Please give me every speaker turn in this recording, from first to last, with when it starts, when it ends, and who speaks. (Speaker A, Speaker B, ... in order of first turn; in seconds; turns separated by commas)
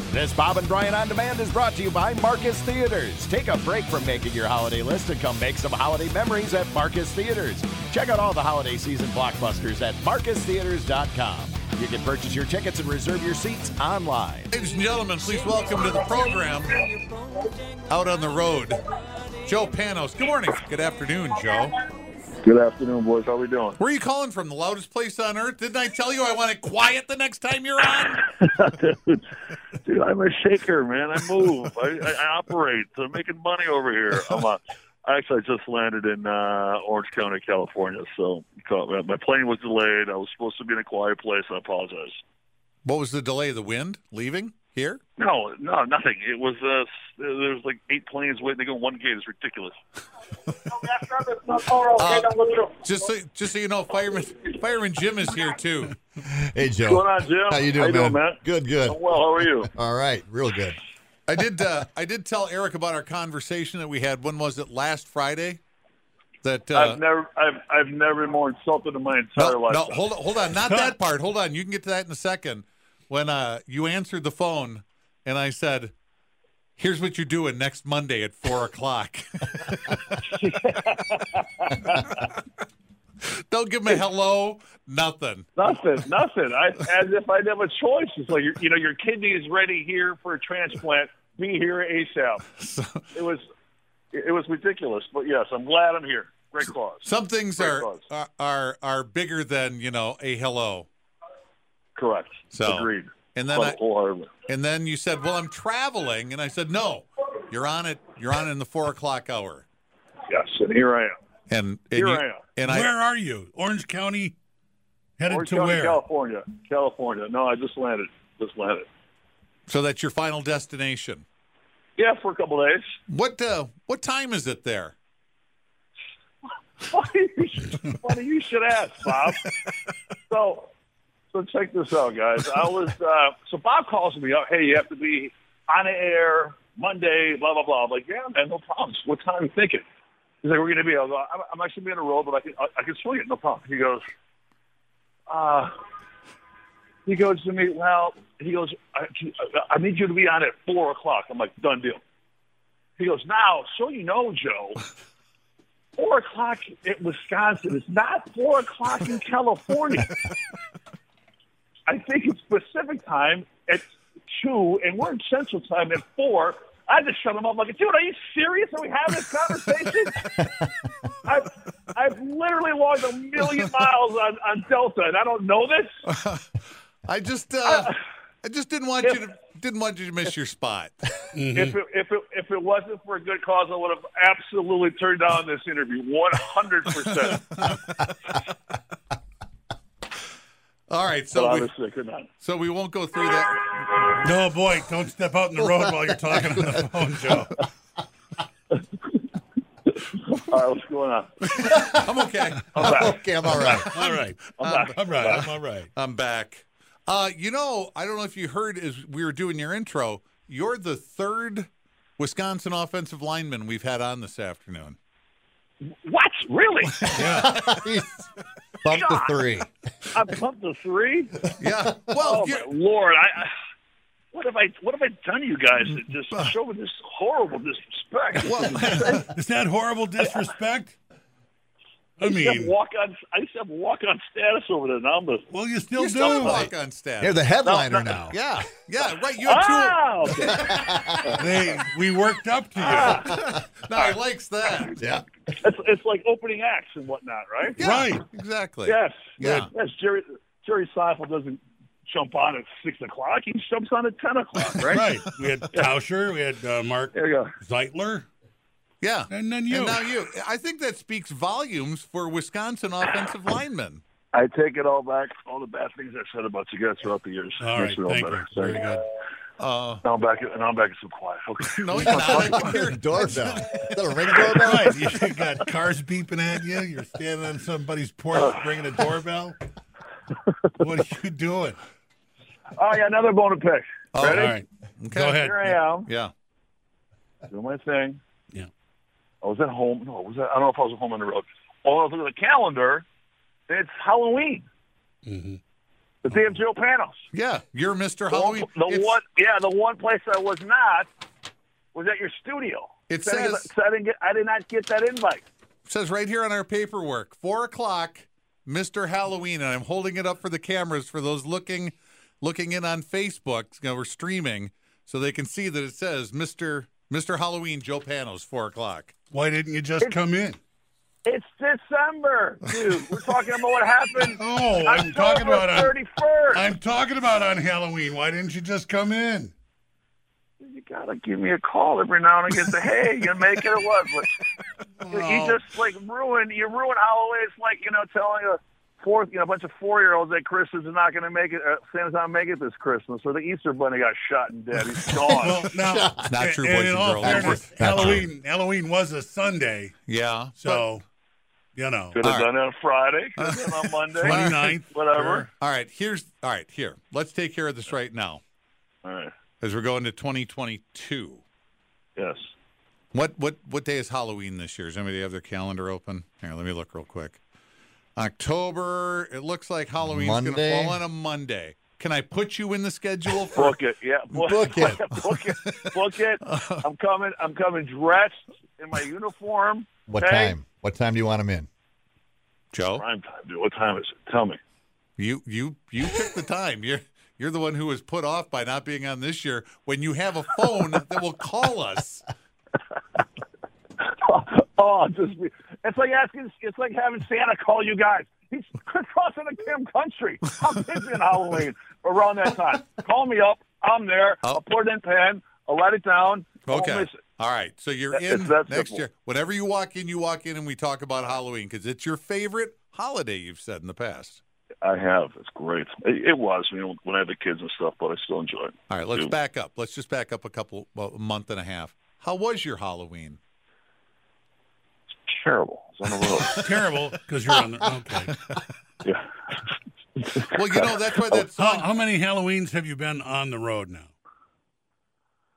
Speaker A: 0.1-14.5, Speaker B: 14.5-16.8, Speaker B: 17.9-18.8, Speaker B: 19.4-21.7, Speaker C: 22.4-23.8, Speaker B: 23.8-28.2, Speaker C: 28.1-29.2, Speaker C: 29.8-42.2, Speaker B: 42.8-45.0, Speaker C: 45.2-49.8, Speaker C: 51.1-52.7, Speaker B: 51.9-56.0, Speaker D: 56.2-60.8, Speaker C: 56.8-59.7, Speaker B: 61.3-65.6, Speaker B: 66.4-67.0, Speaker C: 66.7-70.0, Speaker B: 69.3-75.9, Speaker E: 70.6-71.0, Speaker B: 76.8-80.2, Speaker C: 80.2-82.3, Speaker B: 83.2-85.7, Speaker C: 85.6-92.4, Speaker B: 92.5-93.1, Speaker C: 93.1-93.4, Speaker C: 94.1-98.0, Speaker B: 97.0-100.9, Speaker C: 102.0-104.3, Speaker B: 102.5-103.8, Speaker B: 104.5-109.7, Speaker C: 110.3-111.1, Speaker B: 111.5-112.9, Speaker C: 111.9-112.4, Speaker E: 112.6-114.3, Speaker E: 115.2-116.0, Speaker C: 115.3-118.9, Speaker B: 119.7-121.2, Speaker C: 122.0-122.9, Speaker B: 123.1-124.9, Speaker C: 126.9-129.5, Speaker C: 130.3-130.7, Speaker C: 131.3-139.8, Speaker C: 140.4-144.0, Speaker C: 145.3-145.7, Speaker C: 147.1-152.0, Speaker C: 153.0-154.8, Speaker C: 156.0-160.1, Speaker C: 161.9-170.3, Speaker C: 171.2-176.0, Speaker B: 176.1-176.5, Speaker B: 177.0-181.1, Speaker C: 177.7-177.9, Speaker E: 181.3-181.8, Speaker C: 181.5-187.4, Speaker B: 187.2-188.1, Speaker B: 190.9-191.7, Speaker C: 191.3-192.3, Speaker B: 192.4-194.2, Speaker E: 194.2-197.6, Speaker C: 200.0-201.3, Speaker B: 201.6-205.4, Speaker C: 202.7-203.2, Speaker D: 202.8-203.9, Speaker E: 203.5-205.9, Speaker C: 204.6-205.4, Speaker B: 205.9-215.0, Speaker C: 215.8-217.0, Speaker B: 217.0-217.4, Speaker E: 217.1-217.5, Speaker D: 217.2-218.3, Speaker D: 218.8-219.7, Speaker C: 218.9-219.3, Speaker C: 220.1-221.3, Speaker B: 221.5-222.7, Speaker C: 222.2-223.5, Speaker C: 224.3-229.3, Speaker B: 228.4-229.0, Speaker E: 229.1-230.9, Speaker E: 232.2-232.7, Speaker C: 232.2-235.5, Speaker E: 235.5-236.7, Speaker B: 235.9-237.4, Speaker D: 237.2-238.4, Speaker C: 237.6-238.2, Speaker B: 238.3-240.0, Speaker C: 239.4-241.5, Speaker D: 240.5-241.4, Speaker E: 241.4-243.3, Speaker C: 242.8-243.4, Speaker B: 243.1-245.0, Speaker D: 245.0-245.2, Speaker C: 245.5-247.8, Speaker E: 247.8-248.2, Speaker B: 247.8-249.7, Speaker C: 248.8-255.0, Speaker E: 254.8-258.3, Speaker C: 257.1-257.5, Speaker B: 259.0-264.0, Speaker E: 259.3-260.0, Speaker C: 264.3-268.9, Speaker E: 267.6-269.0, Speaker B: 269.6-270.0, Speaker C: 270.0-272.9, Speaker B: 271.6-273.0, Speaker D: 271.9-275.1, Speaker E: 273.1-273.7, Speaker E: 274.4-279.6, Speaker E: 280.7-281.8, Speaker C: 282.7-284.5, Speaker B: 284.1-285.4, Speaker E: 284.2-285.8, Speaker C: 285.4-286.1, Speaker B: 286.1-286.3, Speaker C: 287.5-288.2, Speaker C: 289.4-293.0, Speaker C: 293.7-294.6, Speaker E: 295.2-295.6, Speaker C: 296.2-297.2, Speaker B: 297.3-299.2, Speaker C: 298.3-301.1, Speaker C: 301.9-305.4, Speaker B: 303.1-303.7, Speaker B: 305.9-319.1, Speaker E: 319.3-320.6, Speaker C: 321.2-326.7, Speaker E: 324.2-325.9, Speaker E: 326.5-329.5, Speaker C: 330.6-334.3, Speaker E: 335.0-335.6, Speaker C: 335.1-345.6, Speaker D: 345.2-346.3, Speaker E: 345.4-349.9, Speaker B: 346.3-348.3, Speaker D: 347.2-348.3, Speaker B: 350.1-350.9, Speaker E: 350.5-351.0, Speaker E: 351.7-352.2, Speaker C: 352.1-355.5, Speaker B: 352.2-352.5, Speaker B: 353.4-354.8, Speaker E: 354.2-355.5, Speaker B: 355.6-358.4, Speaker C: 359.0-359.3, Speaker B: 359.6-361.4, Speaker C: 362.1-362.5, Speaker B: 363.1-367.4, Speaker B: 368.1-373.8, Speaker D: 370.0-371.0, Speaker C: 373.5-380.6, Speaker D: 374.4-375.0, Speaker B: 375.1-376.9, Speaker D: 380.1-381.7, Speaker B: 382.7-383.0, Speaker C: 382.9-384.6, Speaker B: 385.2-392.2, Speaker C: 394.0-407.2, Speaker B: 406.7-414.4, Speaker C: 408.1-409.0, Speaker C: 414.8-419.3, Speaker B: 418.9-423.4, Speaker C: 425.2-426.7, Speaker E: 426.4-428.3, Speaker C: 430.1-431.5, Speaker B: 430.5-431.8, Speaker E: 431.6-434.1